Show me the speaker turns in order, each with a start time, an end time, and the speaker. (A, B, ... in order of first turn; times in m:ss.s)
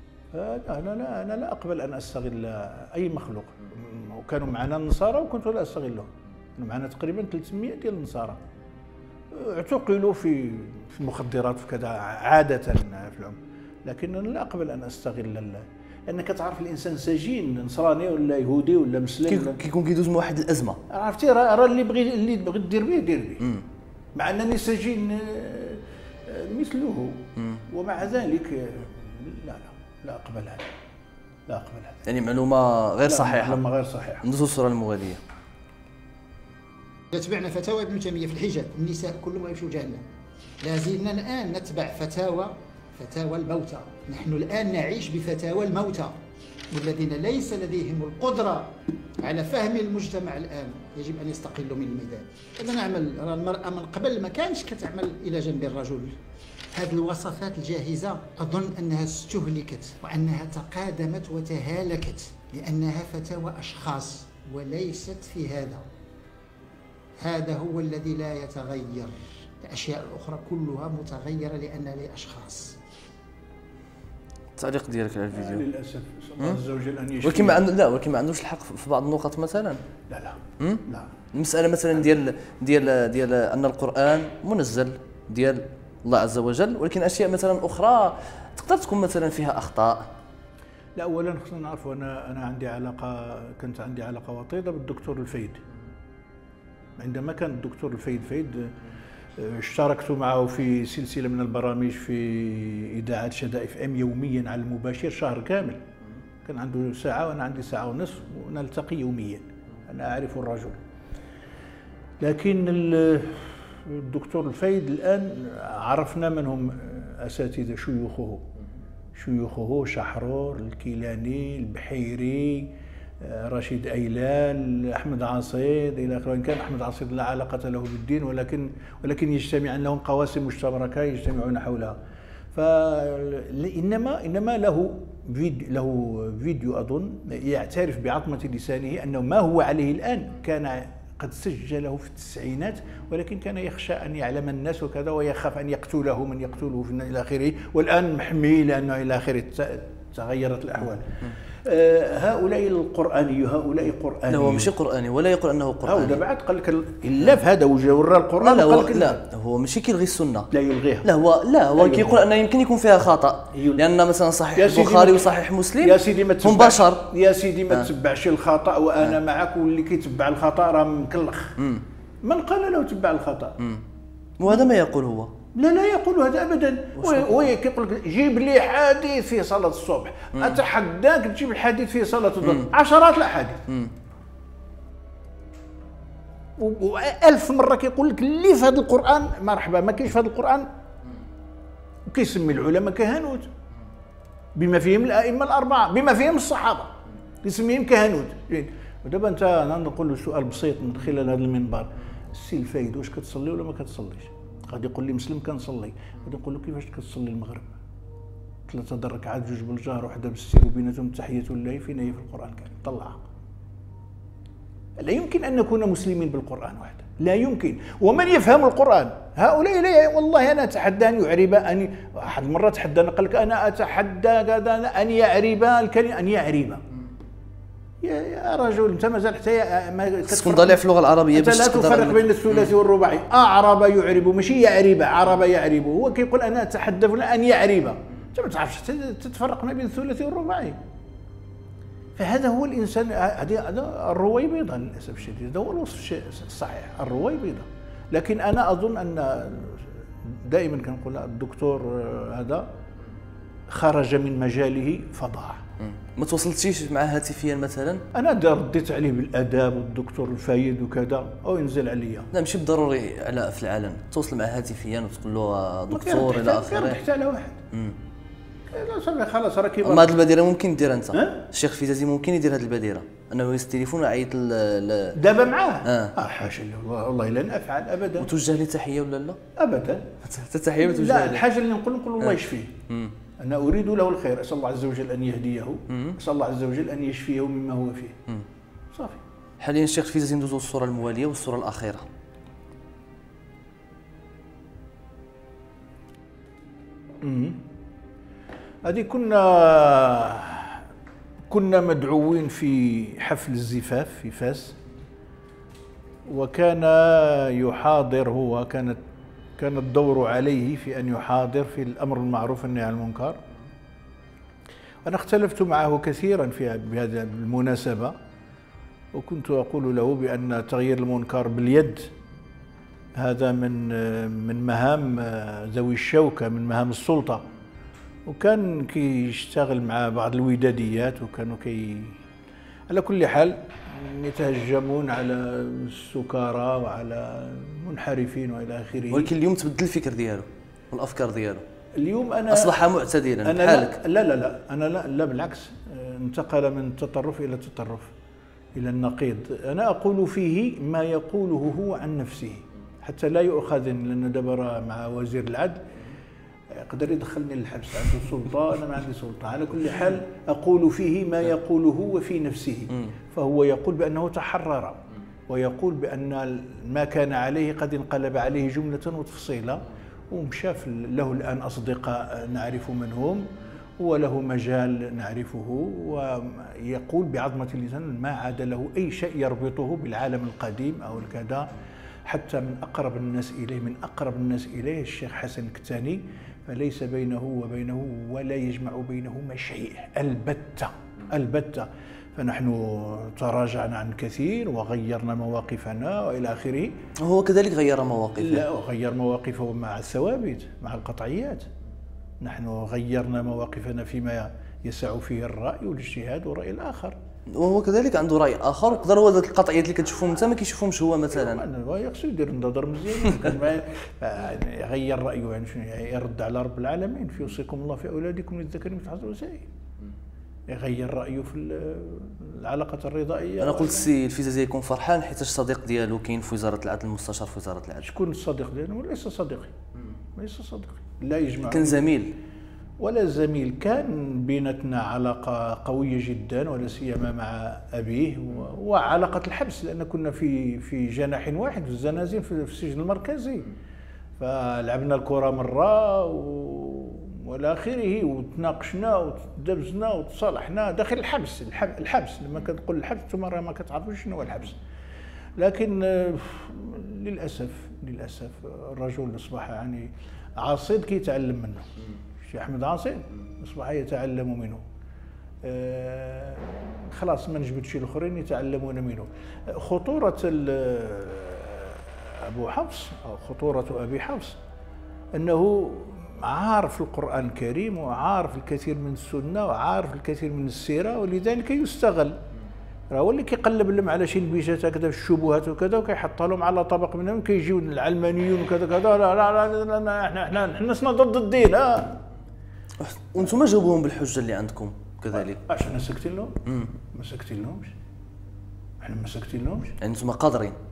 0:00.3-0:08.4 A
0:09.3-0:19.6 A
0:19.3-0:20.8 B
0:20.9-0:23.4 A
0:24.2-0:30.7 A
0:31.5-0:32.0 A
0:32.1-0:33.6 B
0:33.0-0:34.2 A
0:34.2-0:35.2 B
0:37.1-0:40.0 C
0:40.6-0:46.2 C
0:46.7-0:56.2 C
0:56.7-1:05.8 C
1:07.2-1:12.8 C
1:14.6-1:15.7 B
1:15.3-1:17.7 A
1:17.2-1:19.8 B
1:20.1-1:21.1 A
1:20.6-1:30.1 B
1:31.0-1:35.6 A
1:37.0-1:38.8 A
1:39.4-1:45.8 A
1:46.4-1:50.8 A
1:52.2-1:58.4 A
1:59.2-2:12.0 A
2:12.5-2:34.7 A
2:34.3-2:36.2 B
2:35.8-2:39.2 A
2:38.4-2:40.5 B
2:40.5-2:41.1 A
2:41.0-2:47.1 B
2:41.8-2:42.2 A
2:43.5-2:43.9 A
2:44.6-2:51.6 A
2:52.2-2:53.6 A
2:54.4-2:55.3 B
2:55.5-3:03.6 A
2:57.0-2:57.5 B
3:00.3-3:00.6 B
3:02.4-3:02.7 B
3:06.6-3:10.7 A
3:12.1-3:13.5 A
3:14.6-3:27.8 A
3:28.7-3:33.3 A
3:35.0-3:46.8 A
3:48.0-4:00.8 A
3:50.3-3:52.7 B
4:02.2-4:12.7 A
4:13.7-4:15.6 A
4:15.8-4:18.0 B
4:18.1-4:22.3 A
4:22.3-4:27.0 B
4:25.9-4:27.6 A
4:28.7-4:30.2 A
4:29.8-4:35.2 B
4:31.1-4:31.4 A
4:35.2-4:38.3 A
4:35.8-4:36.2 B
4:38.2-4:39.4 B
4:39.6-4:40.2 A
4:40.2-4:41.5 B
4:40.8-4:42.8 A
4:42.9-4:43.2 B
4:43.4-4:48.2 A
4:45.9-4:46.2 B
4:48.9-4:49.2 A
4:49.6-4:52.1 B
4:57.2-4:57.6 A
4:58.8-5:00.8 A
5:01.5-5:04.8 A
5:06.3-5:09.0 A
5:09.6-5:13.4 A
5:15.0-5:18.2 A
5:19.1-5:22.1 A
5:23.2-5:27.4 A
5:28.3-5:32.2 A
5:32.9-5:39.3 A
5:39.1-5:41.6 B
5:42.0-5:42.8 A
5:42.5-5:44.0 B
5:43.4-5:48.1 A
5:48.8-5:55.8 A
5:56.7-6:13.5 A
6:14.0-6:21.7 A
6:22.3-6:37.0 A
6:37.2-6:38.7 B
6:38.4-6:41.7 A
6:42.4-6:47.2 A
6:47.5-6:51.6 B
6:51.3-6:59.7 A
7:00.7-7:04.1 A
7:03.6-7:08.1 B
7:08.0-7:09.7 A
7:10.4-7:12.1 A
7:11.6-7:12.4 B
7:13.0-7:23.7 A
7:24.4-7:34.8 A
7:35.6-7:41.9 A
7:42.4-7:44.8 A
7:45.6-7:54.6 A
7:55.3-8:02.4 A
8:03.1-8:12.2 A
8:13.0-8:15.6 B
8:15.3-8:17.9 A
8:16.7-8:16.9 B
8:19.0-8:20.0 A
8:20.0-8:20.8 B